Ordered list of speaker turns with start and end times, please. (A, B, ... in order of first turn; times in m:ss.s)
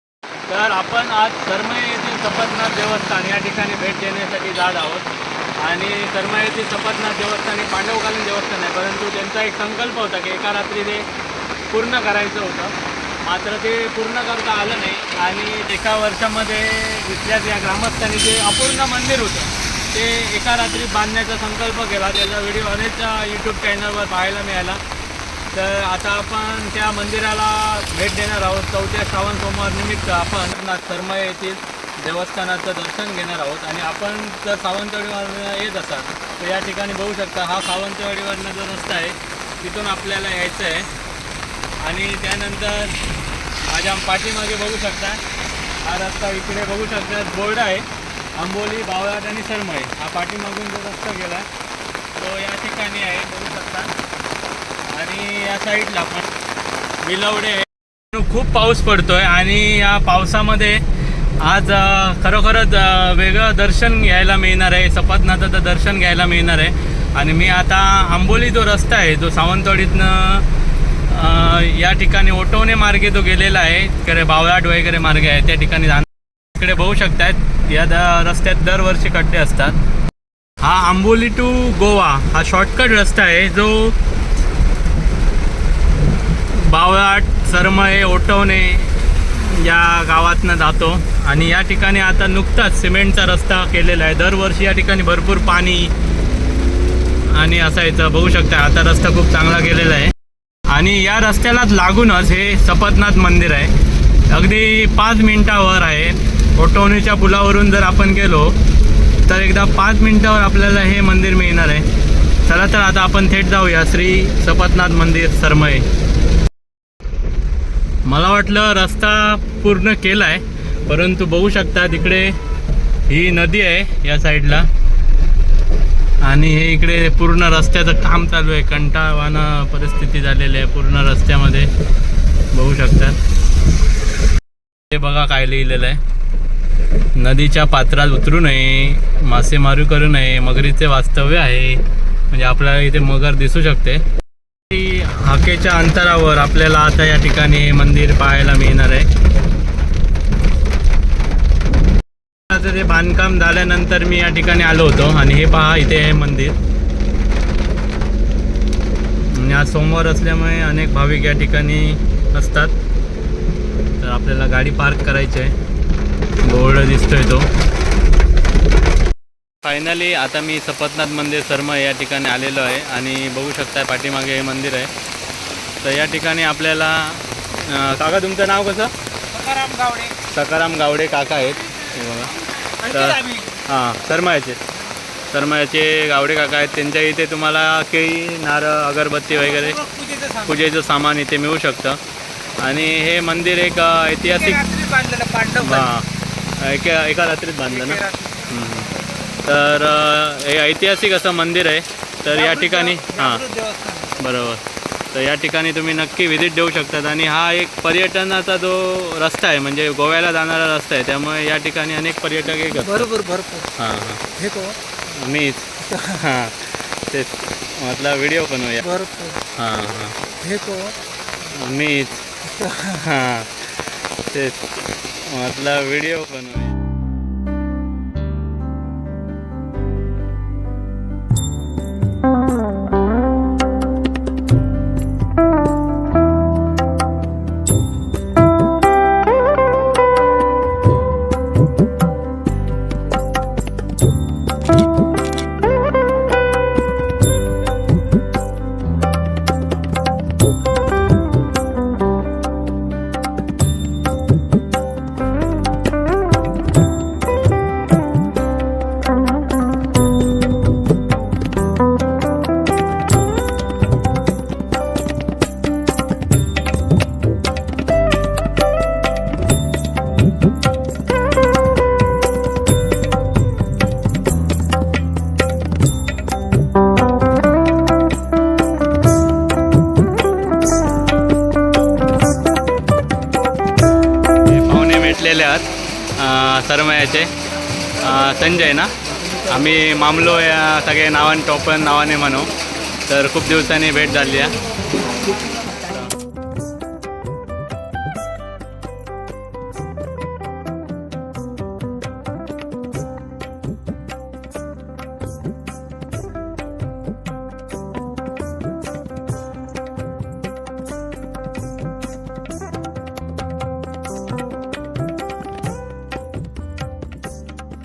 0:00.5-0:11.1 A
0:11.7-0:24.8 A
0:25.5-0:40.9 A
0:41.8-0:43.0 A
0:43.7-0:45.2 A
0:45.8-0:51.5 A
0:52.2-0:53.9 A
0:54.8-0:56.2 A
0:57.0-1:00.8 A
1:01.4-1:10.5 A
1:11.0-1:19.8 A
1:20.6-1:24.0 A
1:26.5-1:35.9 A
1:37.3-1:40.1 A
1:40.7-1:48.6 A
1:49.2-1:51.9 A
1:52.4-1:55.8 A
1:58.0-2:02.4 A
2:03.1-2:04.7 A
2:06.2-2:11.7 A
2:12.5-2:13.2 A
2:14.9-2:16.0 A
2:17.1-2:24.0 A
2:24.7-2:29.1 A
2:32.5-2:36.6 A
2:39.2-2:42.7 A
2:44.0-2:45.5 A
2:46.4-2:47.5 A
2:49.6-2:54.9 A
2:55.8-2:58.9 A
2:59.3-3:00.2 B
3:00.2-3:04.6 A
3:02.8-3:03.6 B
3:05.3-3:12.0 A
3:09.7-3:10.5 B
3:12.6-3:14.6 A
3:14.4-3:15.9 B
3:15.6-3:23.5 A
3:17.8-3:18.5 B
3:22.4-3:24.1 B
3:24.1-3:33.2 A
3:32.9-3:33.7 B
3:33.7-3:34.3 A
3:34.3-3:34.8 B
3:35.0-3:40.3 A
3:38.8-3:39.4 B
3:40.4-3:41.0 B
3:41.4-3:46.8 A
3:42.6-3:43.0 B
4:44.4-4:47.3 A
4:48.0-4:52.5 A
4:53.0-4:54.5 A
4:55.8-4:56.1 A